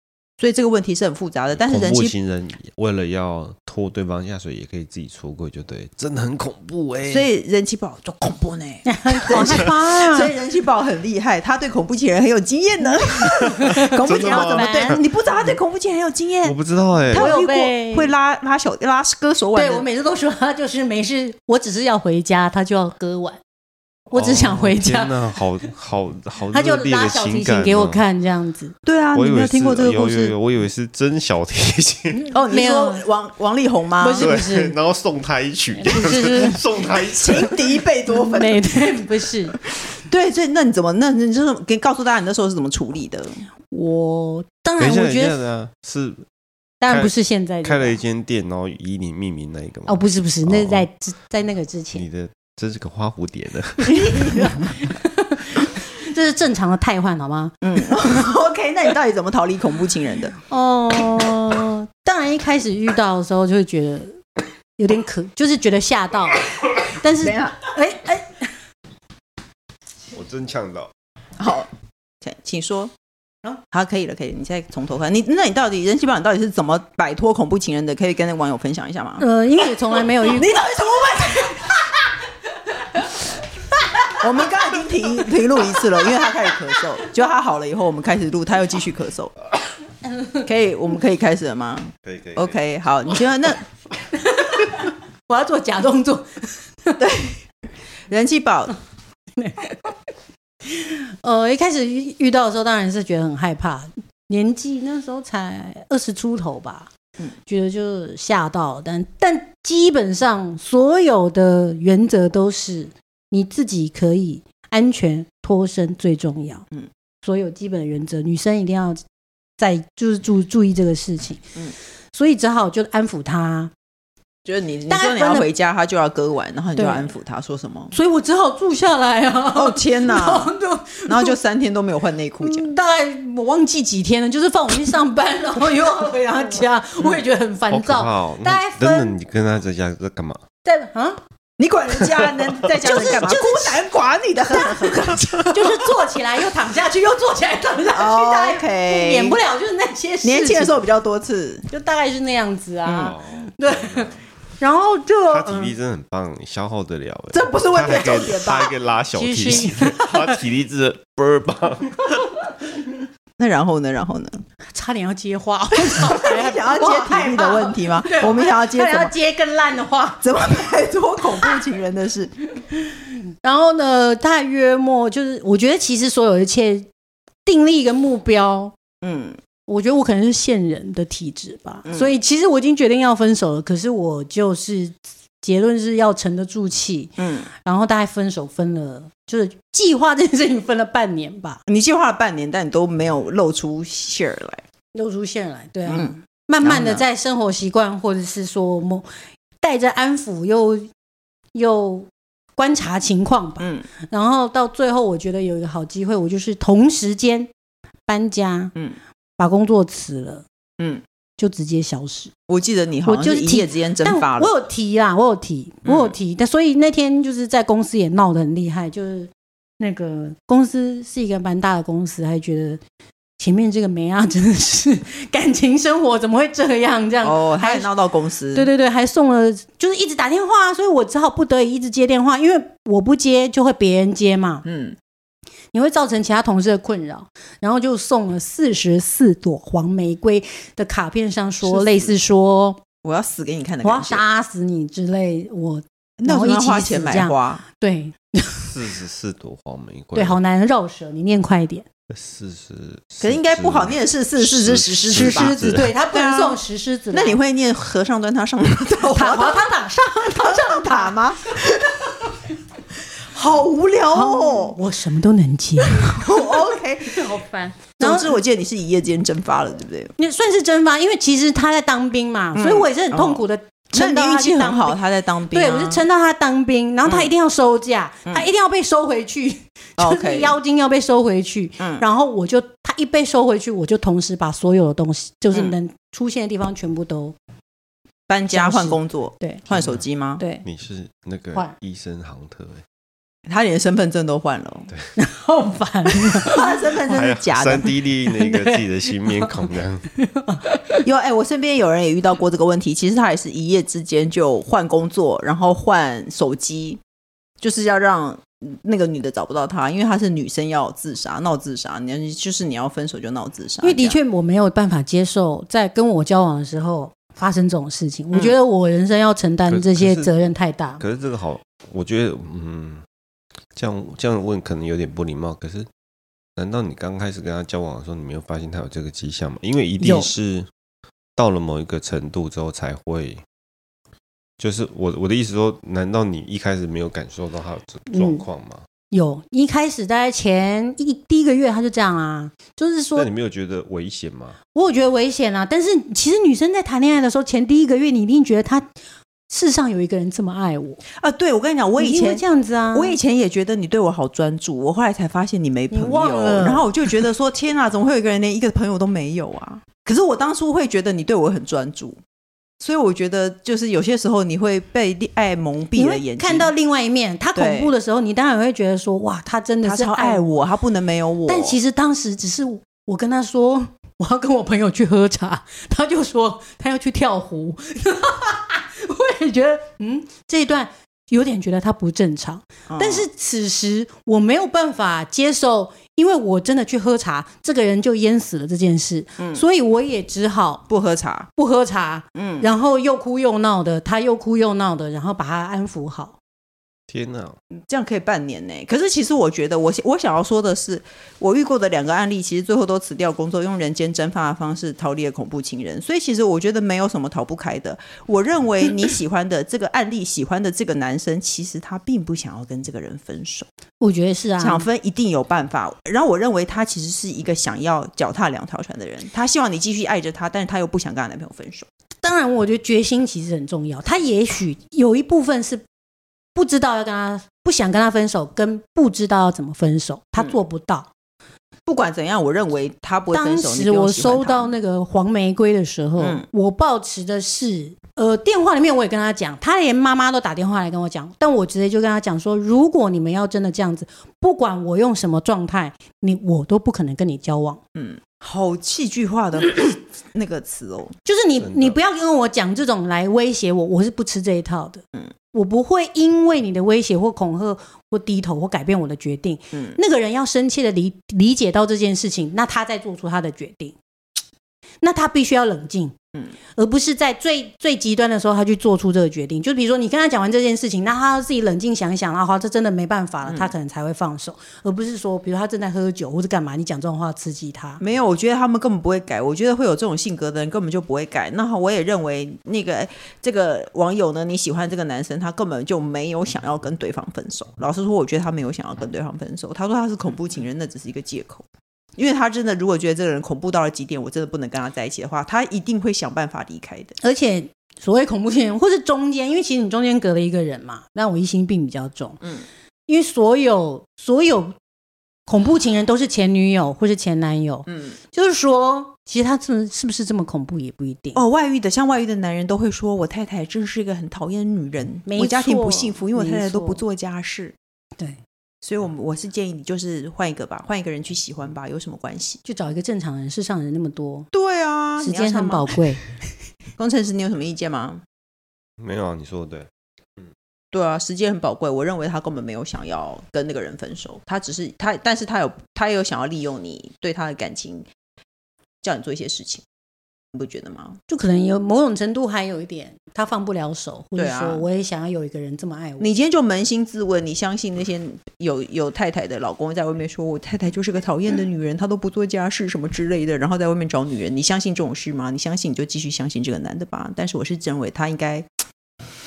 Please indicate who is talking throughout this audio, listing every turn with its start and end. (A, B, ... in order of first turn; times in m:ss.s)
0:00.4-0:02.2 A
0:01.6-0:07.3 B
0:07.0-0:16.6 A
0:08.8-0:10.3 C
0:09.4-0:09.7 B
0:13.6-0:15.0 C
0:13.6-0:15.0 B
0:16.4-0:17.3 B
0:17.1-0:18.1 C
0:17.1-0:19.8 A
0:19.5-0:23.4 C
0:24.1-0:25.7 C
0:24.1-0:28.0 B
0:26.5-0:28.7 C
0:28.8-0:30.4 A
0:29.2-0:32.2 B
0:32.1-0:33.0 C
0:32.3-0:34.3 A
0:34.0-0:34.8 C
0:34.2-0:37.5 B
0:35.8-0:36.7 C
0:37.2-0:38.7 A
0:38.1-0:39.6 C
0:40.0-0:43.4 A
0:43.7-0:45.4 C
0:44.8-0:46.2 B
0:46.8-0:48.0 C
0:46.9-0:50.9 B
0:49.9-0:52.1 C
0:51.9-0:54.4 B
0:53.9-0:57.6 C
0:57.6-1:00.4 A
1:00.5-1:04.2 C
1:04.8-1:08.5 C
1:07.2-1:07.6 A
1:10.1-1:10.9 B
1:11.4-1:11.7 A
1:12.2-1:12.9 A
1:13.6-1:19.2 A
1:19.2-1:21.7 C
1:24.2-1:29.3 A
1:30.4-1:33.6 A
1:32.0-1:32.6 B
1:34.1-1:37.0 C
1:37.0-1:37.4 A
1:38.1-1:38.7 A
1:39.4-1:40.0 C
1:40.7-1:46.9 C
1:47.5-1:56.6 C
1:57.2-1:59.0 C
1:59.6-2:01.4 C
2:02.1-2:03.7 C
2:04.4-2:07.9 A
2:04.9-2:05.5 C
2:06.8-2:07.1 C
2:07.9-2:11.4 C
2:09.5-2:10.5 A
2:11.0-2:12.7 A
2:12.4-2:19.2 C
2:17.7-2:20.4 B
2:20.6-2:21.2 C
2:21.6-2:25.8 A
2:22.8-2:23.9 C
2:24.5-2:30.8 C
2:27.9-2:29.4 A
2:30.2-2:31.7 A
2:31.7-2:35.8 C
2:32.8-2:33.2 A
2:33.0-2:34.1 B
2:35.3-2:42.4 B
2:37.3-2:38.8 A
2:39.1-2:40.4 C
2:43.4-2:44.4 A
2:44.7-2:50.2 C
2:45.9-2:49.1 A
2:50.2-2:52.3 A
2:52.7-2:56.9 C
2:57.4-2:58.7 C
2:59.0-2:59.4 A
2:59.7-3:11.6 C
3:01.9-3:02.1 A
3:07.2-3:07.5 A
3:11.7-3:14.6 A
3:14.9-3:19.1 C
3:15.9-3:17.0 A
3:19.6-3:20.9 C
3:21.6-3:27.5 C
3:23.6-3:23.9 A
3:28.1-3:28.7 C
3:29.4-3:30.4 C
3:31.4-3:32.3 C
3:32.5-3:34.5 A
3:33.0-3:42.8 C
3:35.8-3:36.2 A
3:43.4-3:47.9 C
3:47.2-3:48.7 A
3:48.5-3:54.6 C
3:54.6-3:55.0 A
3:55.7-4:02.8 C
4:01.6-4:02.2 A
4:03.0-4:04.2 A
4:03.8-4:08.8 C
4:06.2-4:07.6 A
4:08.7-4:10.4 B
4:10.1-4:11.9 C
4:12.1-4:15.9 B
4:13.2-4:15.5 A
4:15.1-4:17.4 C
4:16.1-4:16.6 A
4:17.1-4:19.6 A
4:19.1-4:21.2 C
4:20.3-4:22.2 A
4:23.3-4:24.8 A
4:24.1-4:28.4 C
4:26.0-4:27.2 A
4:28.0-4:30.1 A
4:30.2-4:35.0 C
4:32.5-4:33.4 A
4:33.9-4:36.1 A
4:35.5-4:47.4 C
4:37.1-4:37.3 A
4:40.0-4:40.6 A
4:41.8-4:42.0 A
4:48.3-4:50.4 A
4:48.5-4:49.7 C
4:50.4-4:50.7 C
4:50.6-4:52.8 B
4:53.5-4:54.9 A
4:55.2-4:56.7 C
4:56.4-4:57.9 A
4:57.1-5:00.1 B
4:58.2-4:59.7 C
5:00.2-5:01.0 C
5:01.0-5:07.0 A
5:07.6-5:14.2 A
5:13.8-5:21.0 C
5:19.7-5:20.4 B
5:21.0-5:23.0 B
5:23.8-5:25.9 B
5:26.6-5:30.7 B
5:30.0-5:30.3 C
5:31.4-5:33.4 B
5:34.6-5:38.8 B
5:38.1-5:38.5 C
5:39.1-5:43.3 C
5:43.2-5:44.6 B
5:44.7-5:48.9 C
5:49.5-5:51.0 C
5:51.2-6:02.2 A
5:52.0-5:53.2 C
5:55.9-5:57.2 C
6:02.8-6:06.7 A
6:06.0-6:10.6 C
6:07.6-6:07.9 A
6:09.8-6:11.8 A
6:11.5-6:30.8 C
6:22.9-6:23.3 A
6:29.4-6:29.6 A
6:30.9-6:31.5 A
6:31.6-6:36.4 C
6:32.4-6:32.7 A
6:37.1-6:37.6 B
6:37.9-6:53.7 A
6:54.0-6:54.9 C
6:54.6-7:01.9 A
7:02.2-7:05.8 C
7:06.6-7:11.1 C
7:11.9-7:14.7 A
7:13.3-7:27.8 C
7:16.2-7:16.5 A
7:28.0-7:31.2 A
7:31.2-7:35.0 C
7:31.6-7:32.0 B
7:35.5-7:44.0 C
7:39.7-7:40.0 A
7:45.0-7:46.2 C
7:46.8-7:58.0 C
7:53.4-7:53.7 A
7:58.0-8:11.6 A
8:12.2-8:17.1 A
8:17.2-8:22.4 C
8:23.1-8:24.8 C
8:25.5-8:31.4 C
8:27.9-8:28.2 A
8:31.4-8:37.8 A
8:35.2-8:37.0 C
8:38.8-8:42.6 A
8:42.6-8:44.5 C
8:44.5-8:45.9 A
8:45.2-8:46.3 C
8:47.0-8:48.2 A
8:49.0-8:50.5 B
8:50.9-8:58.1 A
8:59.0-8:59.8 A
9:00.5-9:01.2 A
9:01.3-9:06.3 C
9:04.4-9:04.9 A
9:06.2-9:18.7 A